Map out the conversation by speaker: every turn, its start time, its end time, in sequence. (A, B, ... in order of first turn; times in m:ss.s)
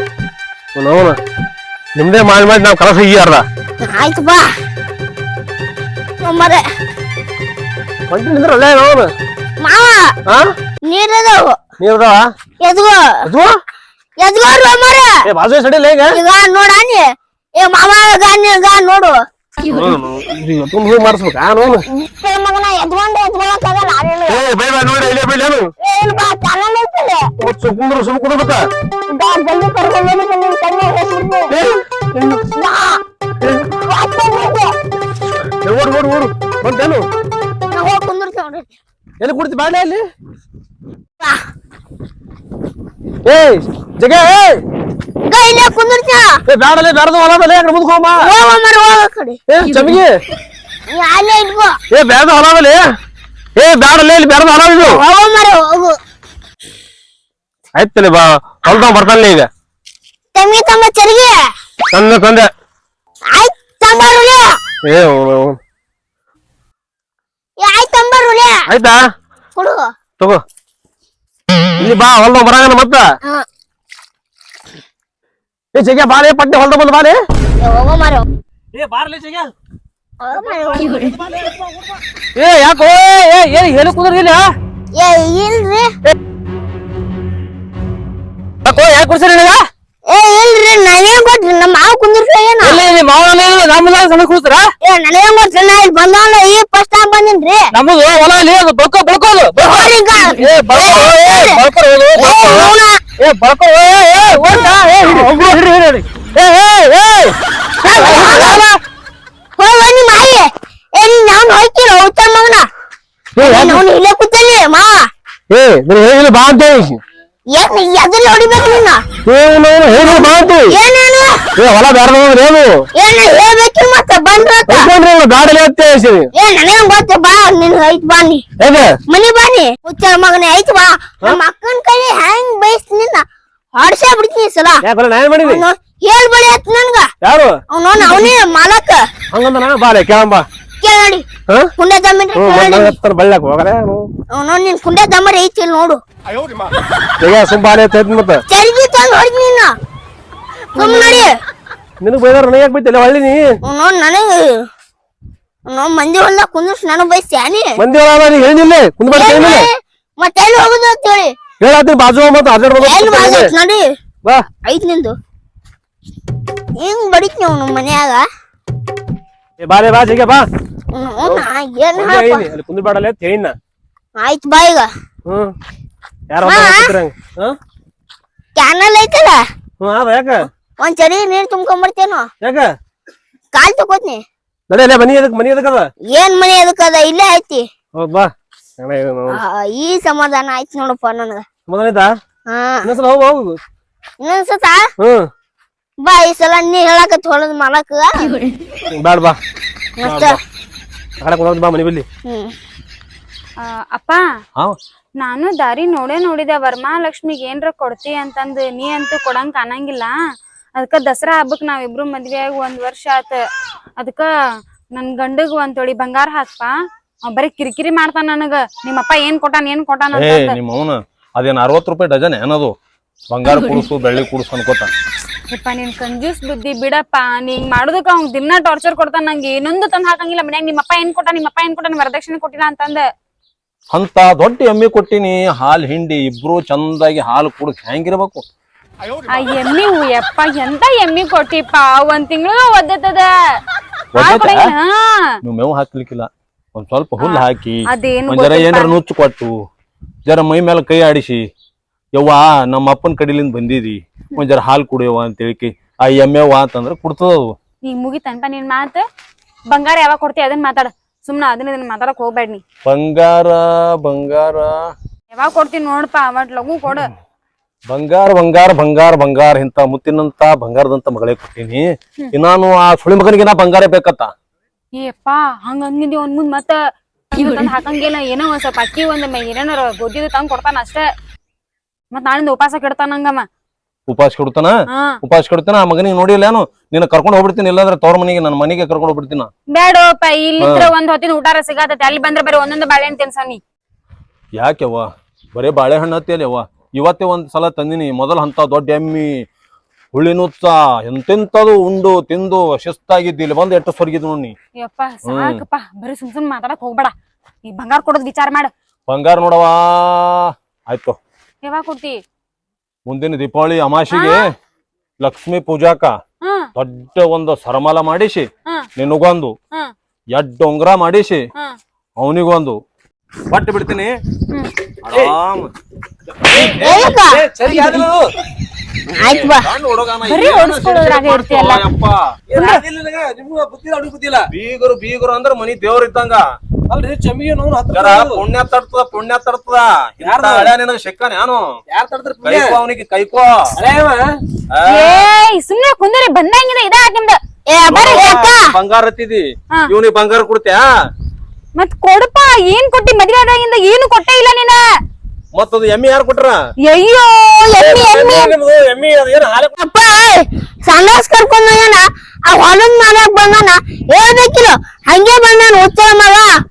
0:00.8-0:01.2 A
0:02.0-0:03.4 A
0:03.8-0:04.5 B
0:06.2-0:06.6 B
0:08.1-0:09.1 A
0:09.6-0:10.1 B
0:10.9-0:11.6 B
0:11.8-0:12.3 A
0:12.6-0:13.3 B
0:13.2-0:13.5 A
0:14.2-0:15.2 B
0:15.2-0:16.2 A
0:16.1-0:19.2 B
0:19.7-0:21.8 A
0:21.9-0:24.4 B
0:24.3-0:25.7 A
0:25.8-0:27.3 B
0:27.4-0:28.7 A
0:29.1-0:31.6 B
0:31.5-0:31.8 A
0:32.2-0:33.0 B
0:33.8-0:34.7 B
0:35.6-0:37.1 A
0:37.7-0:38.7 B
0:39.2-0:40.0 A
0:43.3-0:44.6 A
0:45.3-0:46.4 B
0:46.5-0:48.3 A
0:48.2-0:49.4 B
0:49.5-0:50.2 A
0:50.9-0:51.8 B
0:51.9-0:52.8 A
0:53.6-0:55.0 A
0:54.8-0:56.0 B
0:57.8-0:59.5 A
0:58.7-0:59.0 B
1:00.4-1:01.4 B
1:01.9-1:02.5 A
1:03.3-1:04.6 B
1:04.8-1:05.6 A
1:07.6-1:08.6 B
1:08.7-1:09.0 A
1:09.6-1:09.9 B
1:11.8-1:13.1 A
1:15.7-1:17.2 A
1:17.6-1:18.3 B
1:18.7-1:19.5 A
1:20.2-1:21.2 B
1:20.4-1:21.6 A
1:22.4-1:24.5 A
1:24.9-1:25.9 B
1:28.6-1:29.6 A
1:30.1-1:32.8 B
1:32.6-1:34.7 A
1:34.8-1:37.7 B
1:37.7-1:47.4 A
1:39.6-1:41.6 B
1:42.2-1:43.0 B
1:44.5-1:45.2 B
1:47.8-1:48.7 B
1:47.9-1:48.7 A
1:49.6-1:52.7 B
1:53.4-1:53.8 A
1:53.4-1:55.1 B
1:55.5-1:57.0 A
1:57.5-1:59.0 B
1:59.2-2:00.8 A
2:00.0-2:01.5 B
2:01.6-2:02.9 A
2:03.0-2:04.9 B
2:04.7-2:06.3 A
2:06.3-2:08.4 B
2:08.6-2:09.0 A
2:09.1-2:14.8 B
2:14.8-2:15.6 A
2:15.4-2:17.1 B
2:17.2-2:18.3 A
2:17.7-2:19.1 B
2:19.3-2:20.4 A
2:20.8-2:21.2 B
2:21.8-2:23.0 B
2:22.4-2:24.1 A
2:24.3-2:26.0 B
2:27.2-2:28.4 A
2:28.5-2:29.8 B
2:30.8-2:31.3 B
2:30.8-2:31.3 C
2:32.0-2:33.5 A
2:33.6-2:34.5 B
2:35.7-2:37.8 B
2:37.8-2:39.7 A
2:39.1-2:41.4 B
2:41.6-2:43.5 A
2:42.8-2:44.0 B
2:44.6-2:45.2 B
2:46.8-2:48.3 B
2:49.6-2:50.5 A
2:50.9-2:52.5 B
2:51.2-2:53.6 A
2:54.2-2:54.9 B
2:55.3-2:55.5 A
2:56.3-2:57.6 A
2:56.4-2:56.9 B
2:58.6-2:59.4 B
2:59.8-3:00.4 A
3:00.8-3:02.3 B
3:02.4-3:02.7 A
3:03.5-3:04.2 B
3:04.7-3:05.9 A
3:06.1-3:07.7 B
3:08.0-3:09.4 A
3:09.3-3:11.5 B
3:11.7-3:12.1 A
3:12.5-3:12.9 B
3:12.8-3:13.6 A
3:14.2-3:14.9 B
3:15.0-3:15.3 A
3:16.0-3:18.4 B
3:18.9-3:19.4 A
3:20.0-3:20.4 B
3:20.0-3:20.4 D
3:21.2-3:22.0 A
3:22.2-3:22.5 B
3:23.9-3:24.2 C
3:25.2-3:30.2 C
3:30.8-3:33.4 C
3:34.0-3:34.3 C
3:34.9-3:36.7 C
3:37.3-3:40.6 C
3:40.1-3:42.7 D
3:43.3-3:44.9 D
3:45.5-3:53.0 C
3:53.9-3:58.4 D
3:59.3-4:03.3 C
4:04.1-4:04.7 D
4:04.2-4:05.3 C
4:05.4-4:09.5 D
4:07.2-4:09.0 C
4:10.3-4:11.4 D
4:12.2-4:17.5 D
4:17.8-4:19.0 C
4:19.7-4:22.6 C
4:22.8-4:24.8 D
4:25.3-4:27.1 C
4:27.9-4:34.3 D
4:35.0-4:36.8 C
4:37.3-4:41.1 C
4:42.1-4:43.4 C
4:44.1-4:49.5 D
4:49.7-4:53.6 C
4:50.6-4:50.9 D
4:54.6-4:59.3 D
5:00.1-5:04.6 D
5:04.8-5:07.1 C
5:05.3-5:05.6 D
5:07.6-5:08.7 C
5:09.1-5:11.2 D
5:11.6-5:12.2 C
5:13.1-5:14.4 D
5:14.1-5:14.4 C
5:15.2-5:16.1 D
5:16.4-5:16.7 C
5:16.8-5:19.5 D
5:20.3-5:21.4 D
5:22.2-5:22.8 D
5:23.5-5:24.1 D
5:25.0-5:25.7 D
5:26.5-5:27.1 D
5:26.5-5:28.2 A
5:26.6-5:27.4 B
5:27.7-5:28.0 C
5:29.1-5:29.7 B
5:29.2-5:32.2 D
5:30.3-5:31.9 C
5:32.5-5:34.5 A
5:34.5-5:36.4 D
5:36.9-5:38.4 A
5:37.9-5:41.6 D
5:40.2-5:40.8 A
5:41.9-5:42.8 A
5:42.4-5:43.7 D
5:43.8-5:44.2 A
5:44.7-5:45.2 D
5:44.9-5:47.4 C
5:47.7-5:48.7 B
5:47.9-5:50.9 D
5:51.8-5:54.8 C
5:55.5-5:56.6 D
5:56.9-5:58.4 C
5:57.7-5:58.5 B
5:57.8-5:59.8 A
5:59.8-6:06.5 B